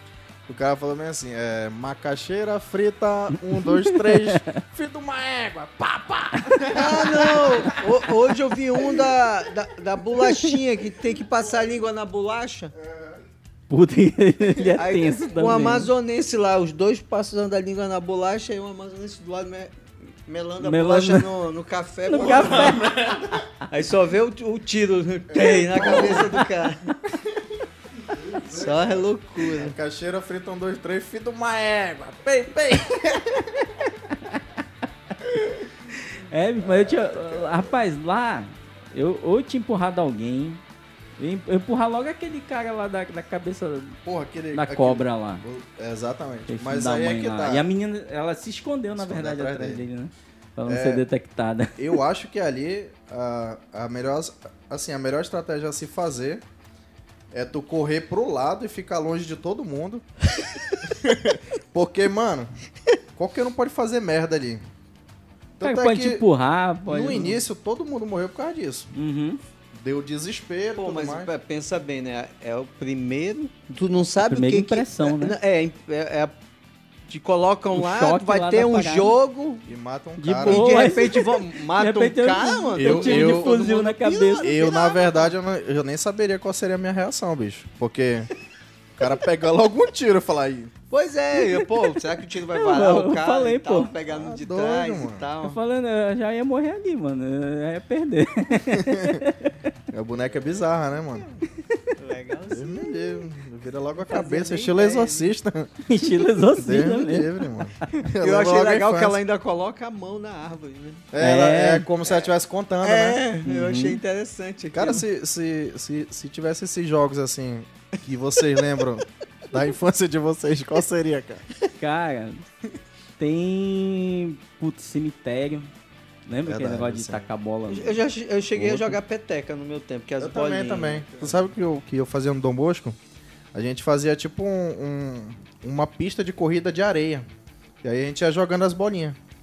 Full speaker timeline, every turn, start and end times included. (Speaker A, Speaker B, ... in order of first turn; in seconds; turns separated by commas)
Speaker A: 0.5-8.0, Speaker B: 3.5-4.6, Speaker B: 6.4-6.7, Speaker C: 6.7-12.7, Speaker A: 8.8-9.3, Speaker B: 10.2-10.5, Speaker A: 12.8-13.2, Speaker B: 13.7-15.9, Speaker C: 14.8-19.7, Speaker C: 20.3-22.9, Speaker B: 20.6-21.3, Speaker B: 22.1-23.1, Speaker A: 22.1-23.4, Speaker C: 23.7-26.9, Speaker A: 25.3-26.4, Speaker B: 25.8-26.4, Speaker A: 28.1-33.9, Speaker C: 28.5-29.8, Speaker A: 35.2-35.7, Speaker B: 36.0-40.6, Speaker A: 36.6-37.6, Speaker B: 41.2-44.0, Speaker A: 44.0-47.6, Speaker B: 44.5-45.4, Speaker B: 46.5-52.0, Speaker A: 49.0-49.9, Speaker A: 50.7-51.0, Speaker A: 51.8-56.4, Speaker A: 57.3-60.0, Speaker A: 60.8-62.5, Speaker A: 63.1-64.6, Speaker A: 65.6-66.2, Speaker B: 65.6-67.4, Speaker A: 66.9-68.9, Speaker B: 69.0-69.4, Speaker A: 69.7-71.3, Speaker C: 70.8-76.3, Speaker B: 74.2-75.3, Speaker C: 77.1-79.7, Speaker B: 77.7-79.1, Speaker A: 79.7-80.9, Speaker B: 80.2-84.5, Speaker C: 80.4-85.3, Speaker A: 82.8-83.6, Speaker A: 84.4-88.3, Speaker A: 89.0-90.7, Speaker C: 90.9-95.6, Speaker B: 92.5-93.9, Speaker A: 94.1-95.3, Speaker B: 95.4-99.7, Speaker A: 98.7-99.2, Speaker A: 99.9-101.4, Speaker C: 100.3-100.6, Speaker C: 102.0-103.3, Speaker A: 102.5-105.7, Speaker C: 104.1-105.3, Speaker B: 105.9-107.4, Speaker A: 106.5-109.2, Speaker C: 108.2-111.1, Speaker A: 111.1-113.2, Speaker B: 111.2-111.9, Speaker C: 112.8-115.0, Speaker B: 113.5-114.0, Speaker A: 114.7-121.4, Speaker B: 121.8-122.5, Speaker B: 123.2-125.7, Speaker B: 126.3-128.0, Speaker A: 126.5-127.3, Speaker C: 127.7-131.4, Speaker B: 128.6-129.0, Speaker A: 130.2-133.0, Speaker A: 133.5-137.3, Speaker A: 137.8-139.2